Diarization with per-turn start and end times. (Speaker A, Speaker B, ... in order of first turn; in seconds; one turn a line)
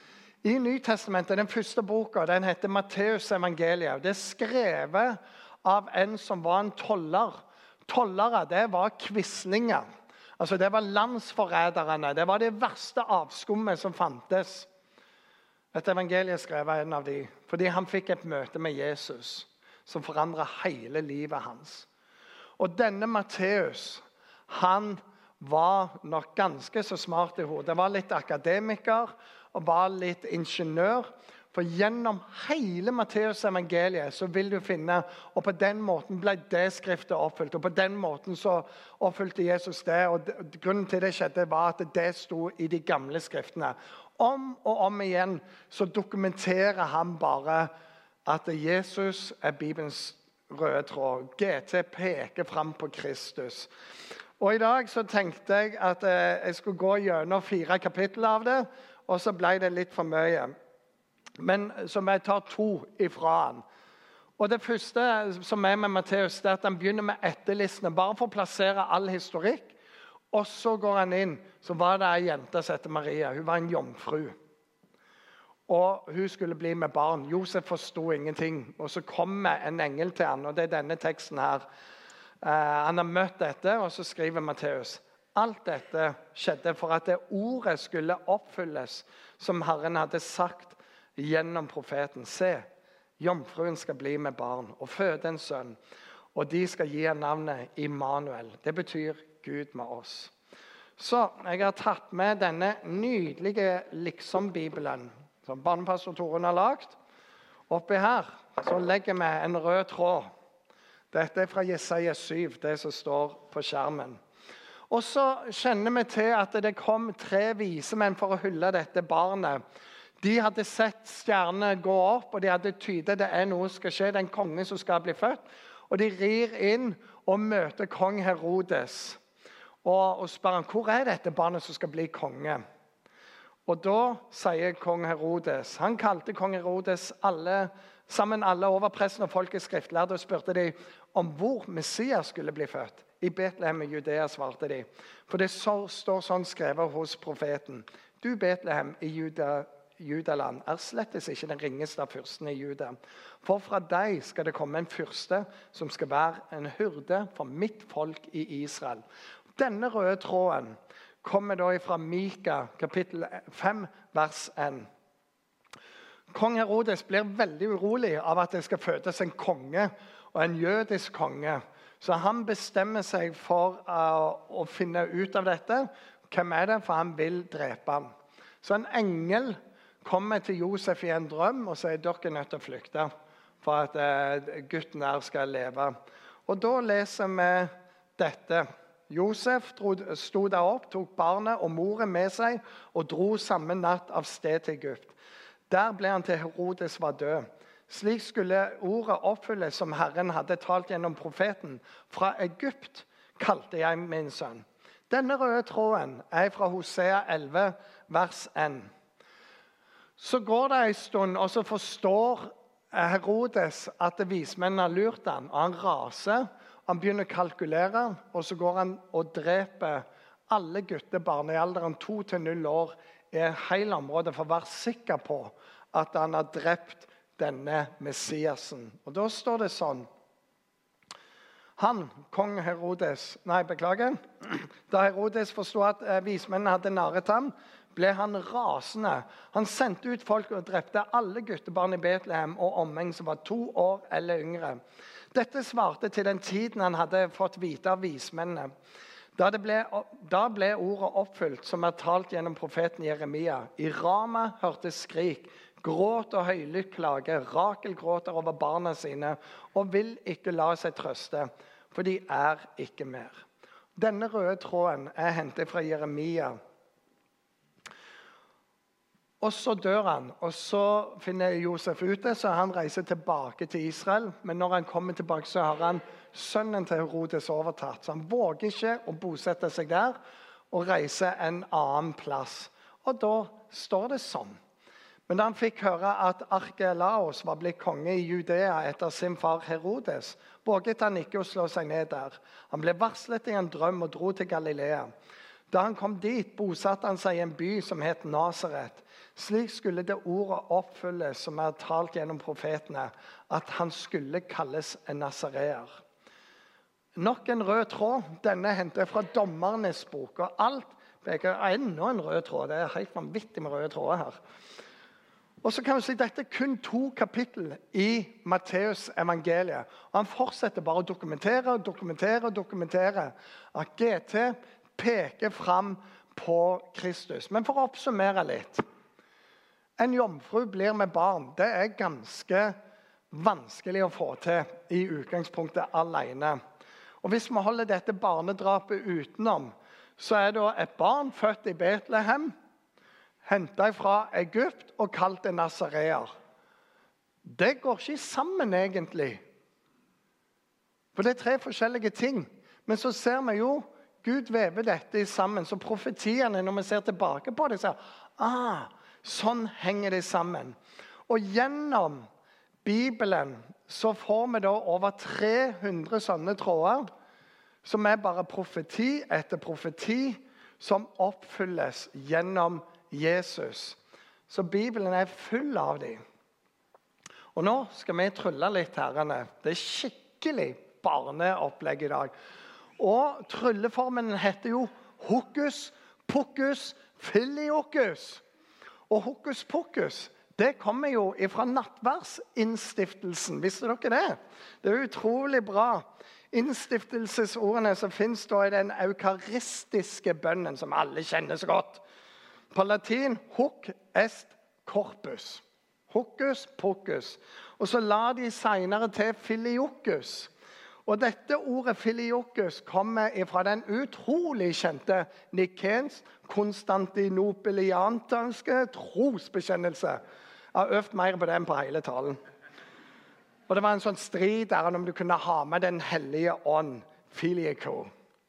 Speaker A: 0.4-9.8
Speaker A: 10.4-14.7
Speaker A: 15.7-21.9
Speaker A: 22.6-47.7
Speaker A: 48.2-53.7
Speaker A: 54.4-60.5
Speaker A: 61.4-63.6
Speaker A: 64.4-69.8
Speaker A: 70.3-74.3
Speaker A: 75.7-81.6
Speaker A: 82.4-92.7
Speaker A: 93.2-95.8
Speaker A: 96.3-100.3
Speaker A: 101.0-107.0
Speaker A: 107.7-110.3
Speaker A: 111.1-114.2
Speaker A: 114.9-119.6
Speaker A: 120.2-129.2
Speaker A: 129.8-132.6
Speaker A: 133.7-159.0
Speaker A: 159.6-164.9
Speaker A: 166.3-178.1
Speaker A: 178.6-183.1
Speaker A: 183.6-185.9
Speaker A: 186.5-195.2
Speaker A: 195.7-208.9
Speaker A: 210.2-230.1
Speaker A: 231.8-244.8
Speaker A: 245.3-248.7
Speaker A: 249.3-263.4
Speaker A: 263.9-266.6
Speaker A: 269.4-280.2
Speaker A: 280.7-284.6
Speaker A: 285.3-295.1
Speaker A: 295.7-306.0
Speaker A: 307.1-314.4
Speaker A: 315.6-328.8
Speaker A: 330.0-332.8
Speaker A: 333.3-336.6
Speaker A: 337.2-342.5
Speaker A: 343.4-346.3
Speaker A: 347.4-349.4
Speaker A: 351.1-360.8
Speaker A: 361.3-362.3
Speaker A: 362.8-367.1
Speaker A: 367.8-374.0
Speaker A: 374.5-376.2
Speaker A: 377.5-382.3
Speaker A: 383.0-388.4
Speaker A: 389.1-402.0
Speaker A: 402.7-410.5
Speaker A: 411.1-420.2
Speaker A: 420.7-422.4
Speaker A: 423.7-428.1